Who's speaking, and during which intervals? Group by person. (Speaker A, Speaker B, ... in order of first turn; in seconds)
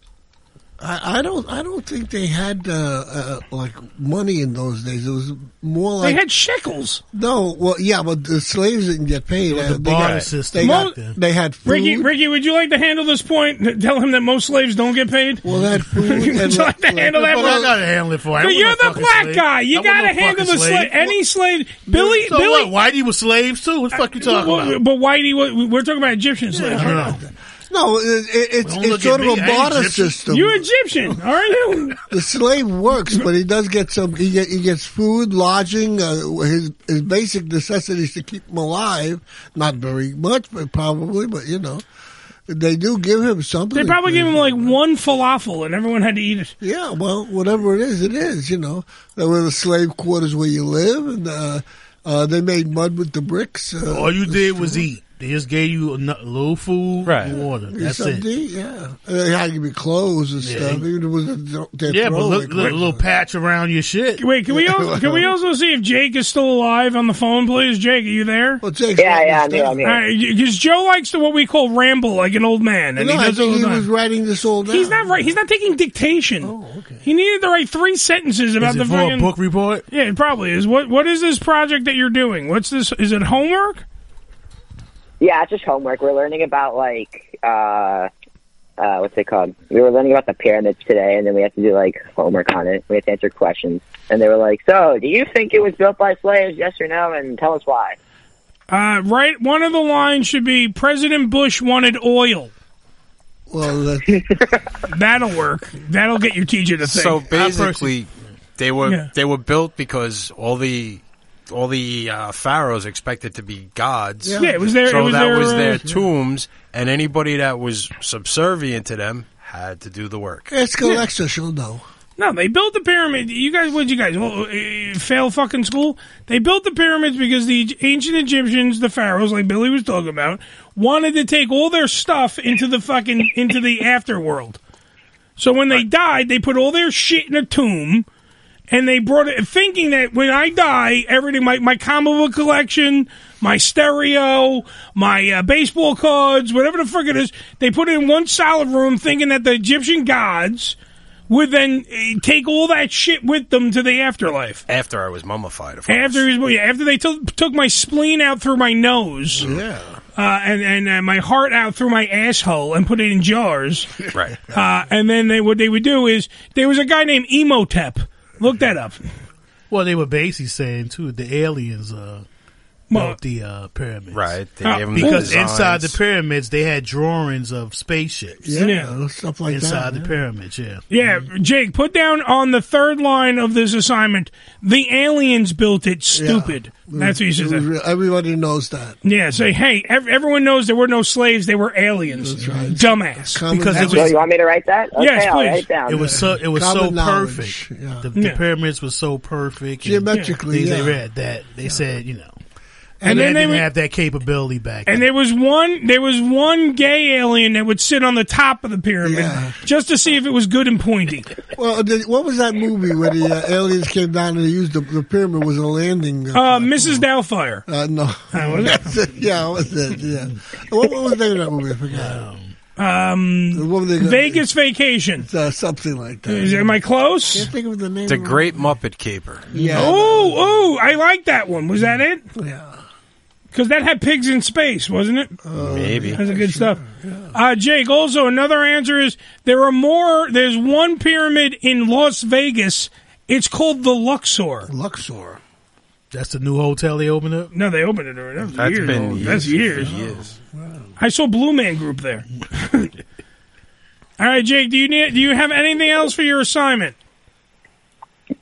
Speaker A: 0.8-6.2, 7.1-12.1, 15.4-17.8, 26.5-30.6, 32.1-41.8, 42.5-44.7, 46.6-54.9, 57.2-63.0, 64.5-65.3, 68.6-69.9, 73.0-75.2, 76.4-77.0, 103.5-104.3, 114.2-114.6, 115.5-116.0, 120.5-121.8, 159.4-160.0, 178.4-180.2, 186.2-189.0, 192.2-194.2, 195.9-198.1, 199.8-201.0, 209.0-209.6, 211.6-217.1, 217.7-222.2, 223.5-224.4, 225.2-226.7, 227.3-228.5, 229.5-230.3, 232.3-232.8, 235.4-237.4, 244.7-245.4, 249.6-250.9
Speaker B: 6.0-7.0, 10.6-10.9, 11.7-15.4, 16.0-17.7, 18.4-22.7, 24.0-27.1, 30.3-32.0, 43.7-46.5, 64.2-68.6, 69.8-73.9, 74.7-76.5, 77.0-79.3, 79.9-83.8, 98.7-102.5, 104.9-107.2, 114.4-115.8, 122.2-134.6, 135.4-138.1, 138.7-150.8, 151.3-154.6, 155.9-159.4, 160.2-163.9, 164.5-169.0, 172.9-173.2, 174.6-175.3, 178.6-178.9, 180.9-187.7, 189.0-193.9, 195.0-195.7, 203.0-203.7, 204.9-211.3, 216.3-217.6, 218.3-218.9, 222.8-225.3, 226.3-227.5, 229.8-232.2, 233.5-235.4, 236.2-236.8, 237.3-244.7, 247.5-249.9, 251.0-252.9, 254.2-257.0
Speaker C: 9.5-11.2, 17.2-21.1, 22.0-24.8, 26.8-27.2, 28.6-30.2, 53.9-58.2, 60.4-60.9, 61.9-64.2, 78.6-79.8, 107.3-108.0, 169.7-172.2, 172.9-174.3, 174.9-178.5, 179.5-180.8, 193.5-194.2, 195.8-202.3, 203.0-205.0, 221.9-222.5, 229.5-230.0, 246.1-247.5
Speaker D: 57.0-57.3, 106.8-120.5, 154.7-156.2, 164.1-164.4, 174.1-176.0, 228.1-229.4, 235.6-236.2, 248.6-250.3
Speaker E: 69.0-70.0, 85.2-88.1, 88.8-98.0, 194.0-196.0